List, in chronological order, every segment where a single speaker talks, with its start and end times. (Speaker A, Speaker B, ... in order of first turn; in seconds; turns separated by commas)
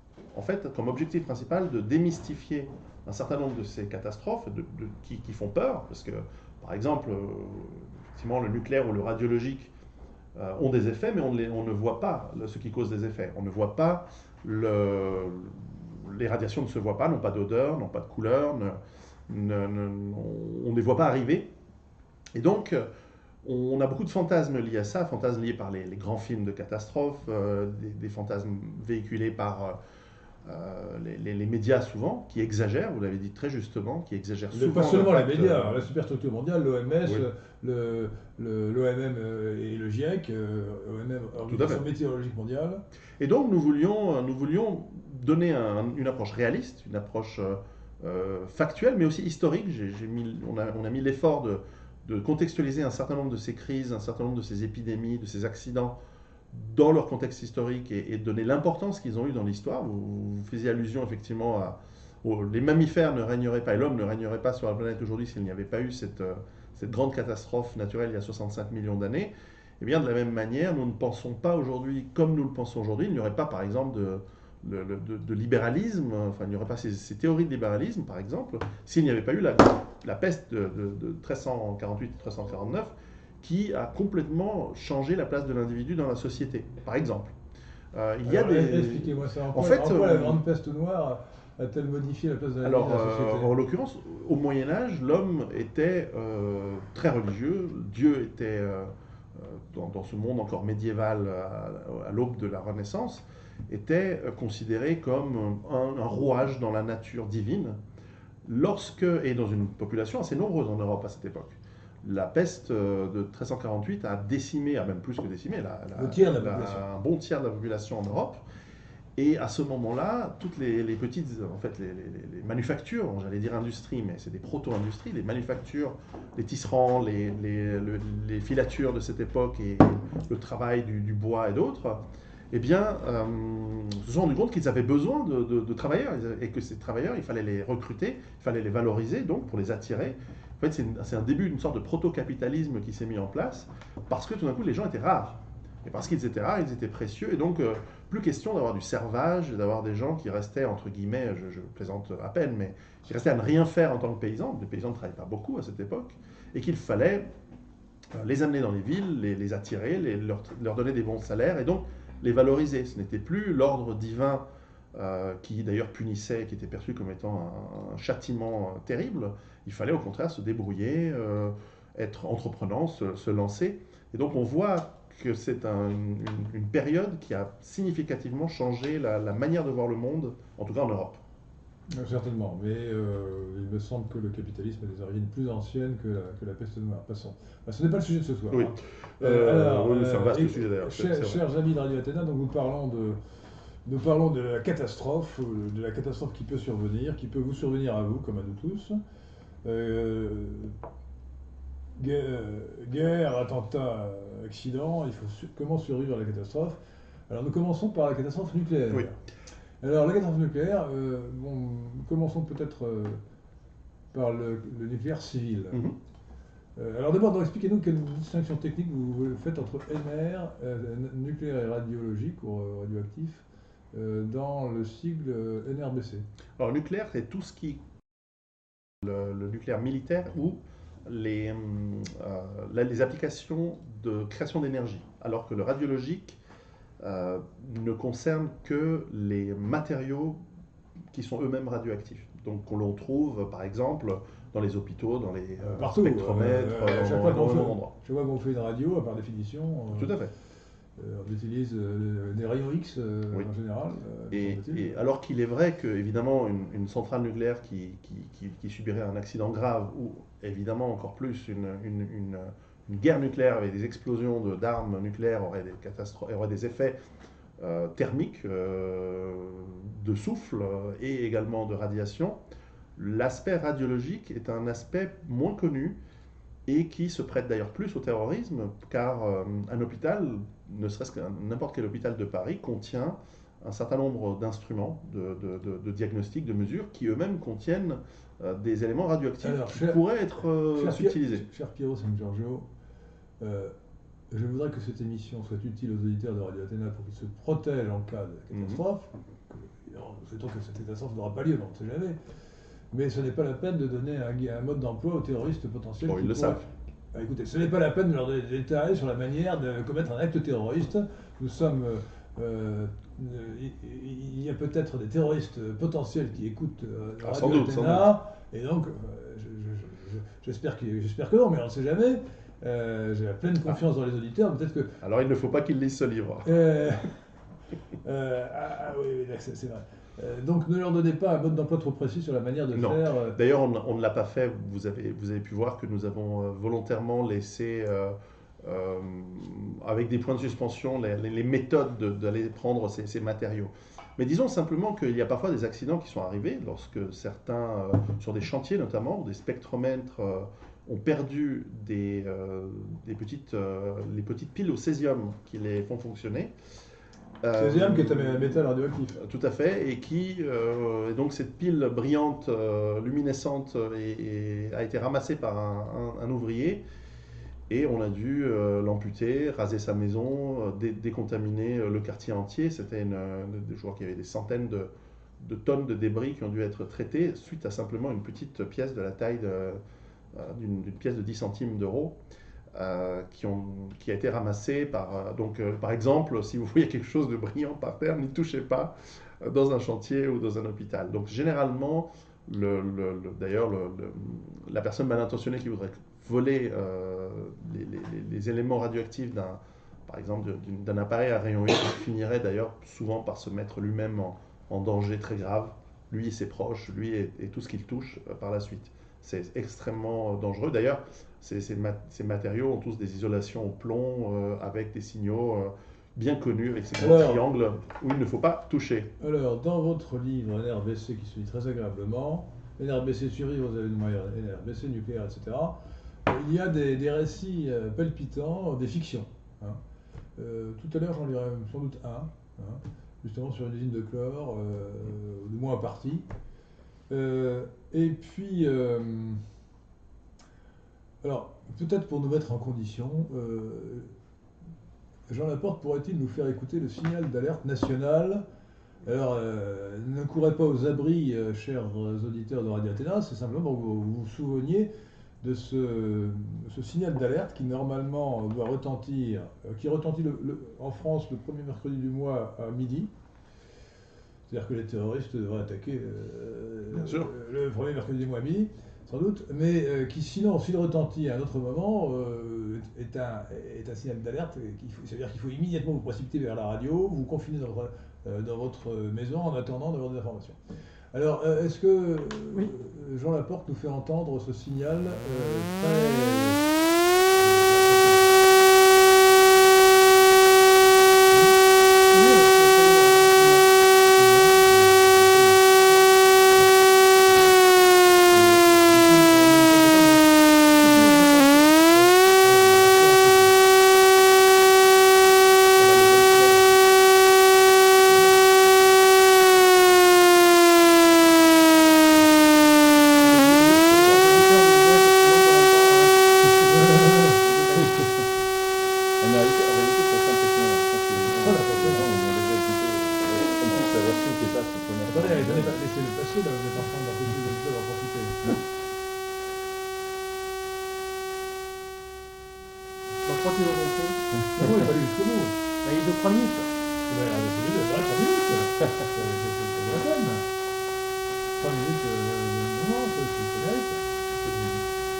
Speaker A: 0.3-9.7, Speaker A: 10.3-21.5, Speaker A: 22.3-22.9, Speaker A: 23.4-29.8, Speaker A: 30.4-35.8, Speaker B: 34.5-42.8, Speaker A: 41.5-41.8, Speaker A: 43.2-56.0, Speaker A: 56.5-87.3, Speaker A: 87.9-90.4, Speaker B: 88.2-93.5, Speaker A: 92.6-107.8, Speaker A: 108.4-118.4, Speaker B: 116.0-116.8, Speaker A: 119.2-157.3, Speaker A: 158.1-181.2, Speaker B: 181.9-193.2, Speaker A: 188.5-191.4, Speaker B: 193.8-199.0, Speaker B: 199.6-200.7, Speaker B: 202.0-206.8, Speaker B: 207.3-209.2, Speaker B: 209.8-213.2, Speaker B: 214.1-215.8, Speaker A: 215.7-216.0, Speaker B: 216.8-226.2, Speaker A: 226.6-227.8, Speaker A: 229.0-236.4, Speaker A: 237.0-240.4, Speaker A: 241.1-247.9, Speaker B: 245.6-250.1, Speaker A: 249.9-250.3, Speaker B: 251.0-255.0, Speaker A: 254.3-267.0, Speaker A: 267.6-272.4, Speaker A: 272.9-276.0, Speaker A: 276.6-291.4, Speaker B: 289.4-290.0, Speaker B: 290.7-292.7, Speaker B: 293.4-293.7, Speaker B: 294.3-302.2, Speaker A: 298.5-298.8, Speaker B: 302.9-324.9, Speaker A: 306.0-306.7, Speaker A: 317.2-318.1, Speaker A: 325.0-326.5, Speaker B: 326.4-327.2, Speaker B: 328.0-333.4, Speaker A: 332.7-356.5, Speaker A: 357.4-366.8, Speaker B: 357.6-359.2, Speaker A: 367.7-379.8, Speaker A: 380.3-382.2, Speaker A: 382.7-419.1, Speaker B: 417.0-417.4, Speaker B: 419.2-429.8, Speaker B: 430.4-436.3, Speaker B: 437.1-439.4, Speaker B: 441.2-444.1, Speaker B: 445.3-448.4, Speaker B: 449.0-454.9, Speaker B: 455.4-463.1, Speaker B: 464.5-480.6, Speaker A: 466.9-467.3, Speaker B: 481.1-486.6, Speaker B: 487.3-488.4, Speaker C: 492.1-493.7, Speaker B: 494.1-495.6, Speaker A: 498.3-498.6, Speaker B: 498.7-500.3, Speaker C: 500.8-502.1, Speaker B: 502.4-503.6, Speaker A: 505.8-506.8, Speaker C: 513.2-516.2, Speaker B: 516.6-517.4, Speaker C: 517.4-518.0, Speaker D: 517.7-518.2, Speaker D: 519.2-525.8, Speaker B: 521.1-522.1, Speaker B: 525.1-528.4, Speaker C: 533.2-534.2, Speaker B: 534.5-535.5, Speaker C: 535.8-536.7, Speaker B: 537.1-540.4, Speaker B: 541.6-544.0